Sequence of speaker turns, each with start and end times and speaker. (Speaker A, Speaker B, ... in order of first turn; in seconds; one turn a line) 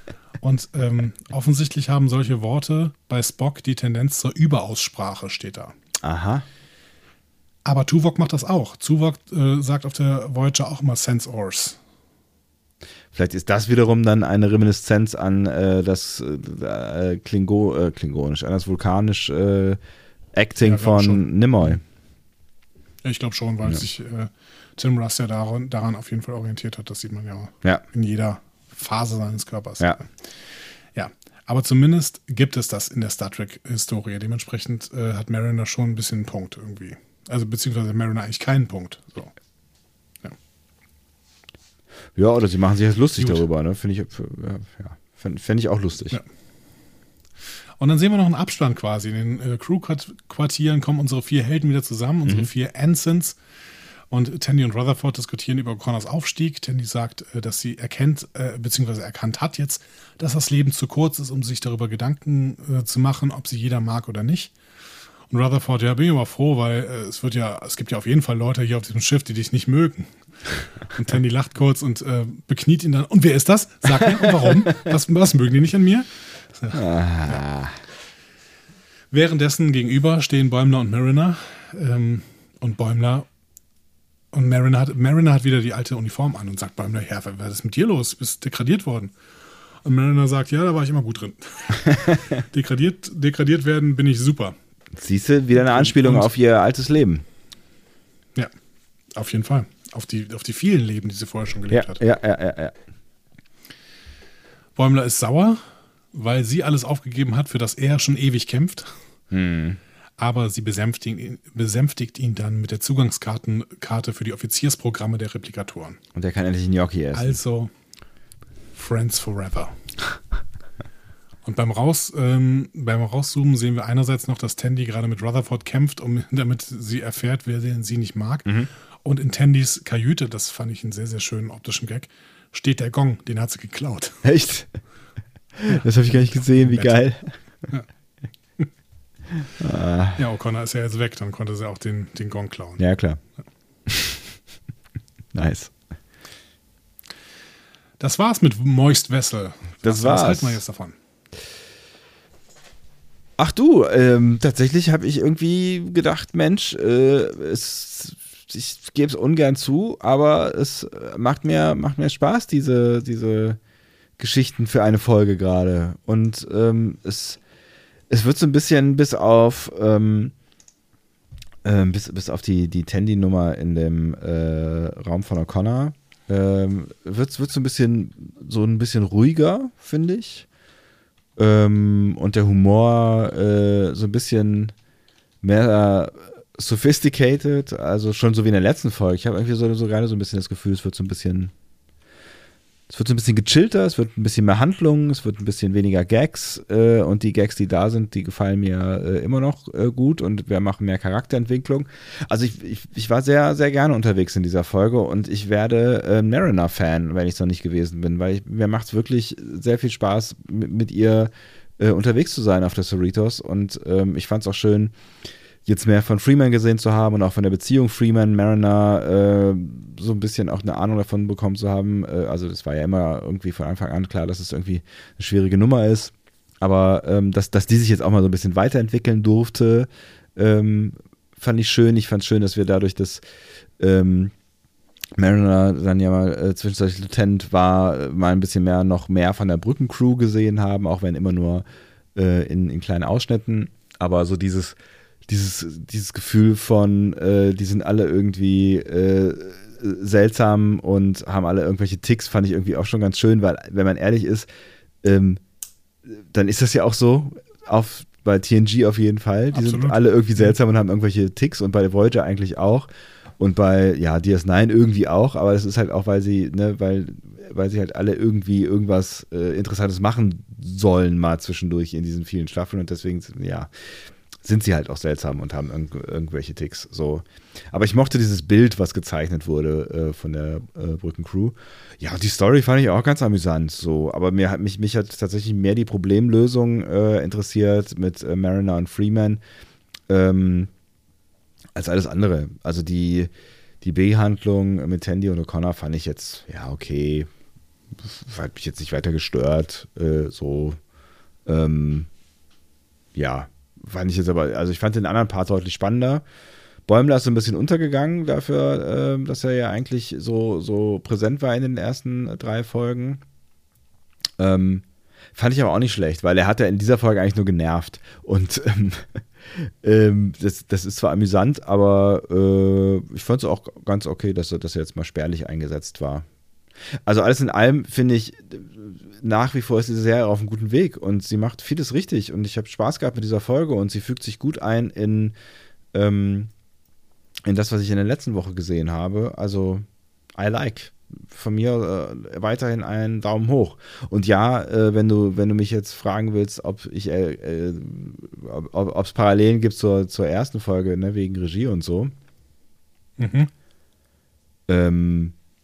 Speaker A: 0.4-5.8
Speaker B: 6.0-6.5
Speaker A: 7.7-11.8
Speaker B: 13.1-19.8
Speaker B: 20.3-21.8
Speaker A: 20.6-21.8
Speaker A: 23.0-30.1
Speaker A: 30.9-39.3
Speaker B: 42.1-46.2
Speaker A: 47.8-53.4
Speaker A: 54.1-64.5
Speaker A: 65.3-70.1
Speaker A: 70.8-77.4
Speaker B: 76.7-77.8
Speaker A: 79.1-83.3
Speaker A: 84.3-89.1
Speaker A: 89.8-94.6
Speaker B: 95.0-97.2
Speaker A: 95.5-96.3
Speaker A: 99.2-102.0
Speaker B: 101.7-102.8
Speaker A: 104.8-105.6
Speaker A: 106.1-108.9
Speaker B: 109.3-109.8
Speaker A: 110.2-116.0
Speaker B: 116.2-117.4
Speaker A: 117.1-117.7
Speaker A: 118.7-119.8
Speaker A: 121.5-134.2
Speaker B: 134.2-134.7
Speaker B: 135.6-137.3
Speaker A: 136.5-137.0
Speaker B: 139.6-140.2
Speaker A: 140.2-142.8
Speaker B: 142.8-143.2
Speaker B: 143.9-144.2
Speaker B: 145.3-145.8
Speaker A: 148.0-151.0
Speaker B: 149.8-150.6
Speaker B: 153.4-163.6
Speaker B: 164.2-167.4
Speaker B: 168.1-170.3
Speaker B: 171.6-180.5
Speaker B: 181.4-184.7
Speaker B: 185.4-191.5
Speaker B: 192.9-214.9
Speaker B: 215.7-233.2
Speaker B: 233.8-234.3
Speaker B: 235.2-241.6
Speaker B: 242.2-254.5
Speaker B: 255.0-255.4
Speaker B: 256.1-289.4
Speaker A: 259.5-260.4
Speaker B: 290.1-290.7
Speaker B: 291.8-297.3
Speaker B: 298.0-300.8
Speaker B: 301.5-302.1
Speaker B: 303.1-306.2
Speaker B: 306.9-313.2
Speaker B: 314.4-326.3
Speaker B: 327.1-335.4
Speaker B: 335.9-336.5
Speaker B: 337.4-352.1
Speaker A: 353.2-353.5
Speaker B: 354.7-355.4